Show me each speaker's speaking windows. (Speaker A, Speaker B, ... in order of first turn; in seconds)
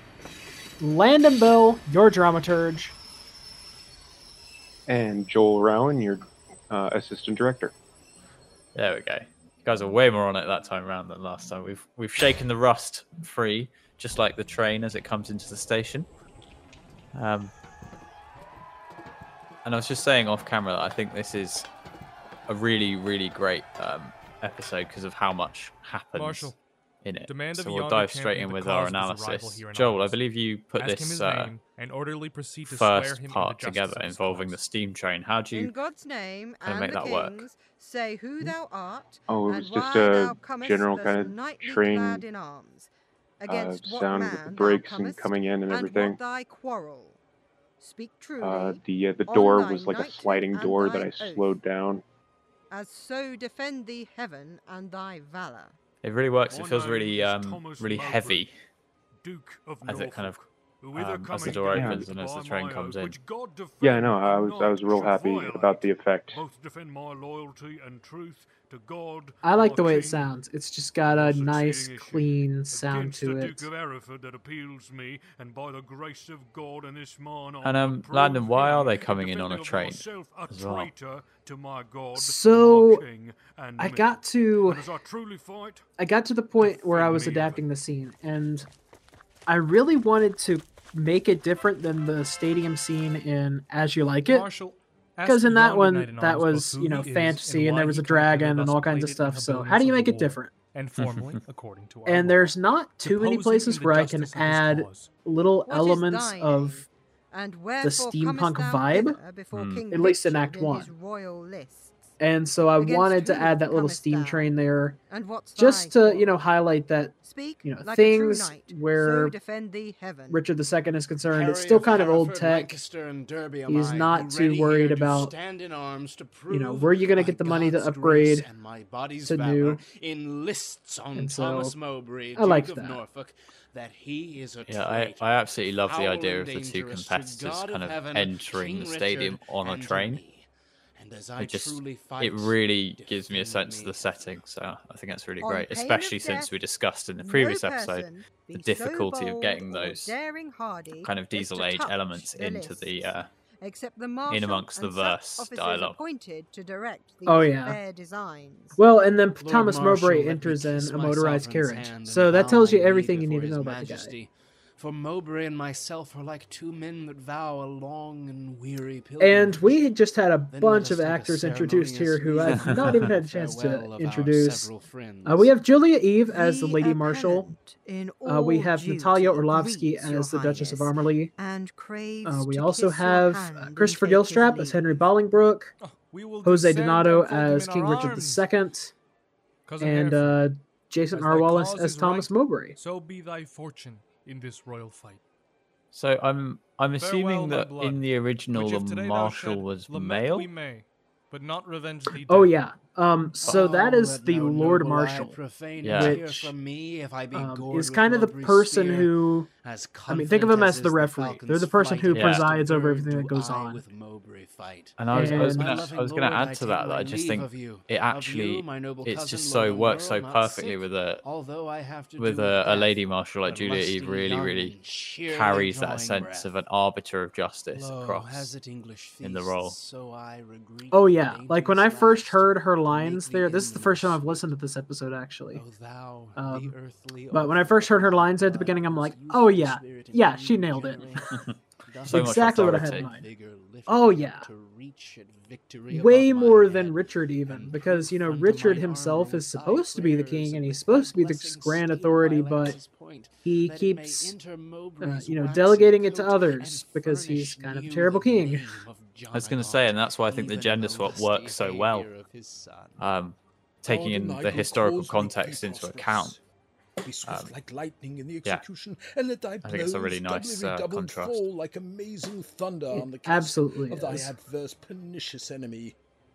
Speaker A: 0.8-2.9, 69.4-73.7, 82.1-83.0, 83.8-84.9, 86.0-88.7, 89.5-94.5, 95.2-100.5, 102.0-106.8, 107.8-109.2, 109.9-110.9, 112.2-115.0, 115.6-119.3, 120.3-122.8, 123.7-125.3, 126.5-128.4, 129.2-129.8, 131.1-131.7, 132.3-133.0, 157.2-157.8, 158.8-164.1, 169.2-174.7, 175.2-177.5, 178.2-181.3, 182.2-185.7, 186.4-188.9, 189.8-192.8, 202.2-206.5, 207.3-209.5, 210.1-213.8, 215.1-215.9, 230.9-235.6, 236.3-236.7, 237.3-241.2, 242.1-243.2, 243.9-244.5, 245.9-252.8, 253.4-254.3, 255.0-258.8, 272.9-274.3
Speaker B: 4.9-7.7, 39.3-42.2, 43.5-46.2, 48.4-52.0, 61.5-62.0, 63.8-66.4
Speaker C: 8.7-16.1, 17.1-17.5, 19.6-21.7, 22.5-31.5, 32.6-35.7, 36.6-37.4, 56.0-58.5, 59.8-60.4, 60.9-63.2, 77.6-80.9, 101.0-101.4, 109.5-109.8, 134.7-140.2, 141.4-150.1, 151.0-153.3, 154.3-156.0, 172.5-173.1, 195.9-200.5, 205.8-206.2, 212.1-212.5, 215.0-221.2, 222.2-228.5, 229.2-229.7, 242.1-243.1, 259.3-262.1, 263.0-266.4, 267.2-267.5, 269.6-271.4
Speaker D: 26.1-26.6, 27.3-30.2, 30.8-34.6, 94.3-105.1, 185.8-188.4, 189.7-190.4, 191.1-195.2, 197.0-202.5
Speaker E: 35.5-47.2, 47.8-51.5, 52.7-55.8, 105.6-112.1, 112.8-114.5, 115.1-116.3, 117.2-120.4, 145.4-146.5, 147.2-158.8, 176.3-185.1
Speaker F: 56.5-58.5, 59.2-70.3, 71.1-85.9, 86.6-87.7
Speaker G: 121.3-144.2, 159.4-169.8, 170.5-175.5, 203.4-226.5, 227.7-234.5, 235.5-263.1
Speaker H: 263.9-266.4, 267.0-276.0